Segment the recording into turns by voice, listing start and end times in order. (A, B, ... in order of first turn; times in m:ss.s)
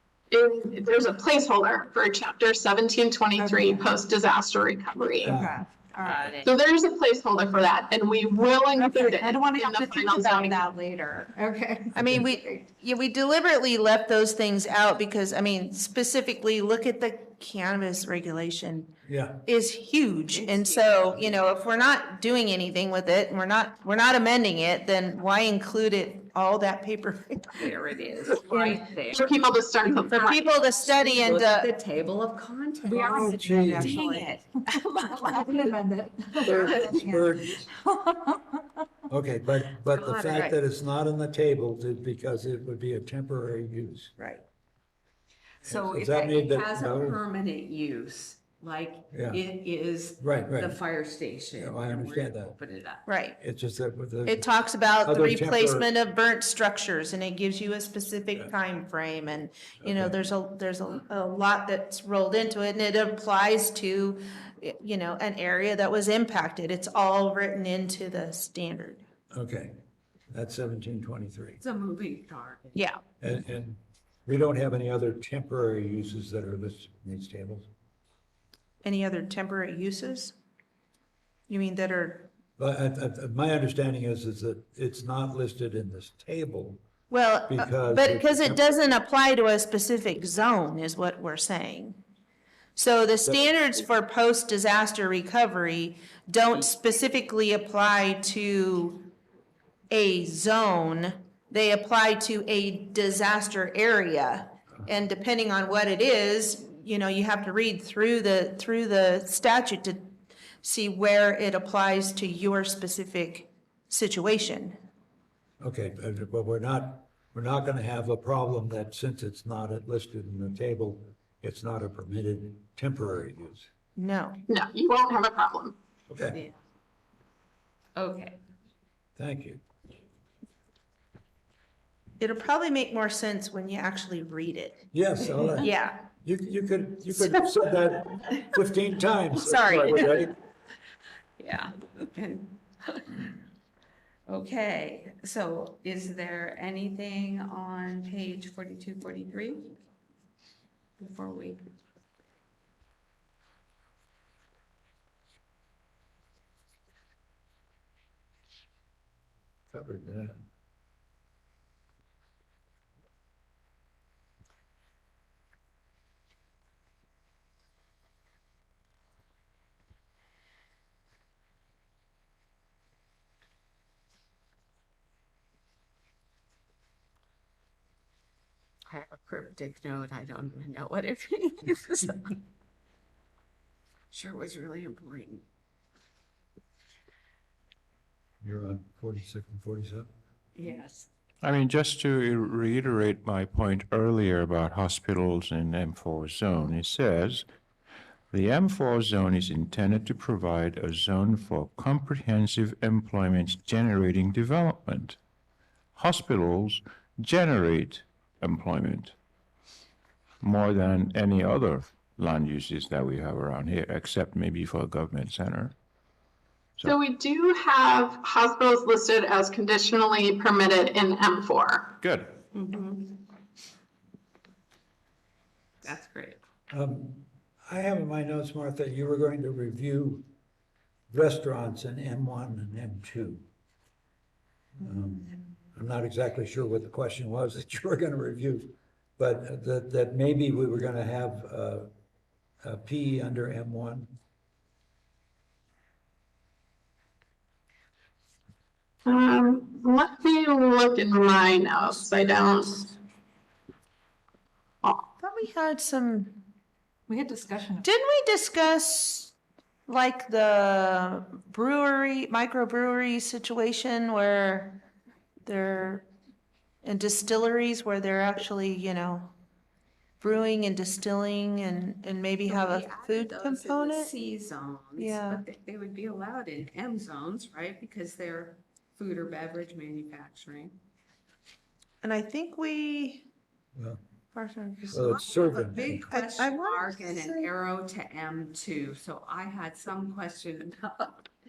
0:00.3-0:05.4 A
0:03.4-0:03.8 B
0:05.2-0:05.6 C
0:05.3-0:06.4 B
0:06.0-0:06.5 D
0:06.4-0:10.6 A
0:09.0-0:09.5 D
0:09.3-0:09.9 B
0:10.0-0:11.4 D
0:11.3-0:11.8 B
0:11.9-0:27.7 E
0:12.0-0:12.3 C
0:19.0-0:19.4 C
0:20.3-0:21.5 D
0:27.5-0:35.7 D
0:29.1-0:30.2 A
0:30.1-0:31.7 E
0:32.8-0:33.7 B
0:33.1-0:34.0 C
0:33.5-0:34.4 E
0:35.2-0:37.4 B
0:36.4-0:37.7 C
0:36.4-0:37.0 D
0:39.1-0:44.1 C
0:39.9-0:40.6 D
0:44.2-0:44.4 E
0:45.6-0:53.1 D
0:45.6-0:47.2 C
0:49.1-0:49.4 C
0:50.2-0:50.8 C
0:51.6-0:52.5 C
0:53.0-0:53.4 E
0:53.4-0:55.9 C
0:54.2-1:09.0 E
0:59.8-1:00.2 C
1:09.3-1:09.8 C
1:10.3-1:11.6 C
1:11.6-1:12.9 D
1:12.7-1:13.0 E
1:13.2-1:17.7 C
1:18.8-1:20.3 E
1:21.5-1:22.3 E
1:22.6-1:26.8 C
1:27.1-1:32.0 E
1:27.5-1:28.8 C
1:32.8-1:39.1 E
1:39.9-1:54.8 E
1:55.6-2:03.7 C
2:04.0-2:04.4 E
2:04.5-2:05.8 A
2:06.1-2:06.4 C
2:08.0-2:08.4 D
2:09.2-2:09.6 C
2:12.2-2:14.8 E
2:14.9-2:20.3 C
2:15.6-2:16.1 E
2:17.1-2:17.7 E
2:19.4-2:20.3 E
2:21.4-2:23.0 D
2:24.3-2:29.7 D
2:31.0-2:31.6 D
2:39.7-2:40.5 C
2:58.9-3:02.4 D
3:04.1-3:05.4 D
3:08.4-3:10.1 C
3:10.6-3:11.1 D
3:11.4-3:17.4 F
3:18.3-3:25.2 F
3:25.9-3:29.1 F
3:30.4-3:35.7 F
3:36.8-3:41.9 A
3:42.0-3:42.3 F
3:42.5-3:43.2 D
3:45.8-3:46.4 D
3:46.7-3:50.3 C
3:51.1-3:53.4 C
3:54.8-4:01.9 C
4:02.6-4:04.1 C
4:09.0-4:12.9 A
4:15.2-4:16.5 E
4:17.1-4:17.8 B
4:17.8-4:19.3 E
4:19.9-4:24.9 E
4:25.4-4:26.1 E
4:26.8-4:29.4 E
4:30.2-4:34.1 E
4:32.5-4:40.8 D
4:35.0-4:35.4 E
4:42.0-4:43.3 E
4:44.3-4:45.3 E
4:44.9-4:51.3 D
4:44.9-4:46.0 C
4:46.1-4:47.5 E